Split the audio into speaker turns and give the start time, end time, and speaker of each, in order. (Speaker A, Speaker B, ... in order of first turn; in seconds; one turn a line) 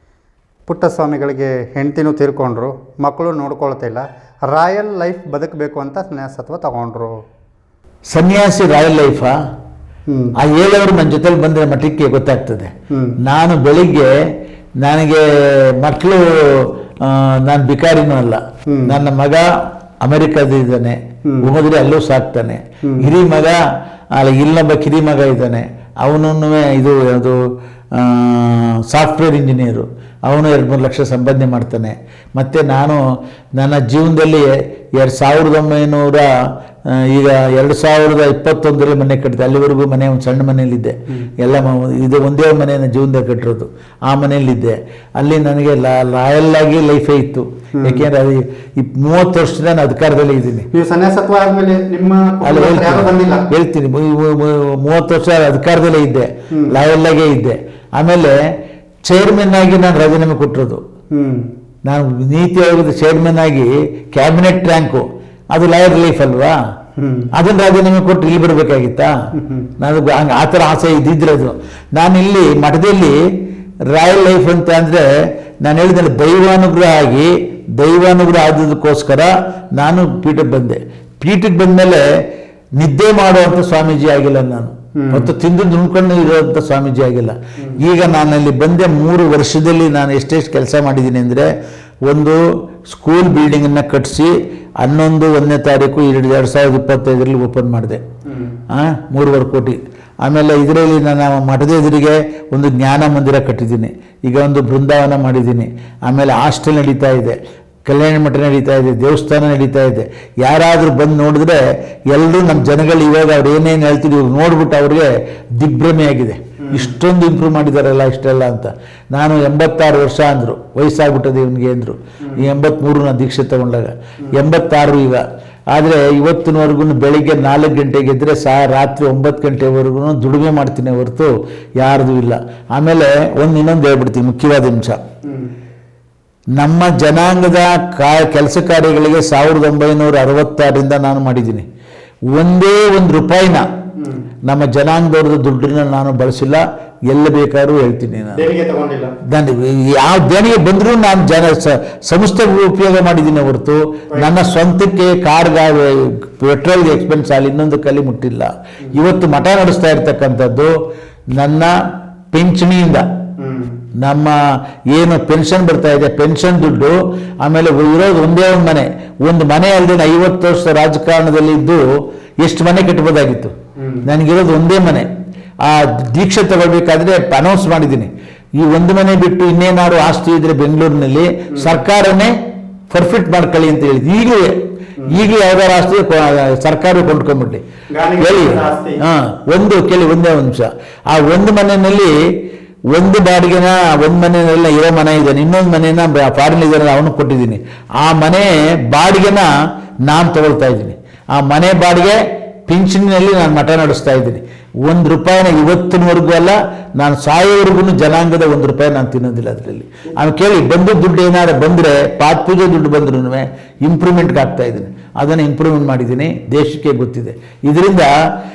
Speaker A: 0.7-7.1
Speaker B: 8.1-9.4
Speaker A: 10.1-10.3
Speaker B: 10.4-12.7
Speaker B: 13.2-19.5
Speaker A: 18.7-19.0
Speaker B: 20.0-23.6
Speaker B: 24.1-33.0
Speaker B: 33.6-50.7
Speaker A: 47.8-48.0
Speaker A: 50.7-53.5
Speaker B: 52.4-58.4
Speaker B: 59.1-60.8
Speaker A: 61.1-61.5
Speaker B: 61.9-66.6
Speaker A: 67.0-67.3
Speaker B: 67.3-69.1
Speaker A: 69.4-69.7
Speaker B: 69.8-73.2
Speaker B: 73.9-75.1
Speaker B: 75.6-82.0
Speaker B: 82.8-91.5
Speaker A: 85.0-85.3
Speaker B: 92.1-98.0
Speaker A: 98.3-98.6
Speaker B: 98.7-135.0
Speaker A: 135.2-135.5
Speaker B: 136.6-141.7
Speaker B: 142.3-143.7
Speaker A: 144.0-144.2
Speaker B: 144.5-148.5
Speaker A: 148.3-149.2
Speaker B: 149.3-160.8
Speaker B: 161.4-161.7
Speaker B: 162.3-163.1
Speaker A: 163.4-163.8
Speaker B: 164.0-164.4
Speaker B: 164.9-171.9
Speaker B: 172.4-173.5
Speaker A: 173.8-174.0
Speaker B: 174.1-175.1
Speaker B: 175.6-182.3
Speaker B: 182.9-187.6
Speaker A: 187.9-189.0
Speaker B: 188.2-192.2
Speaker B: 192.9-199.5
Speaker B: 200.1-218.1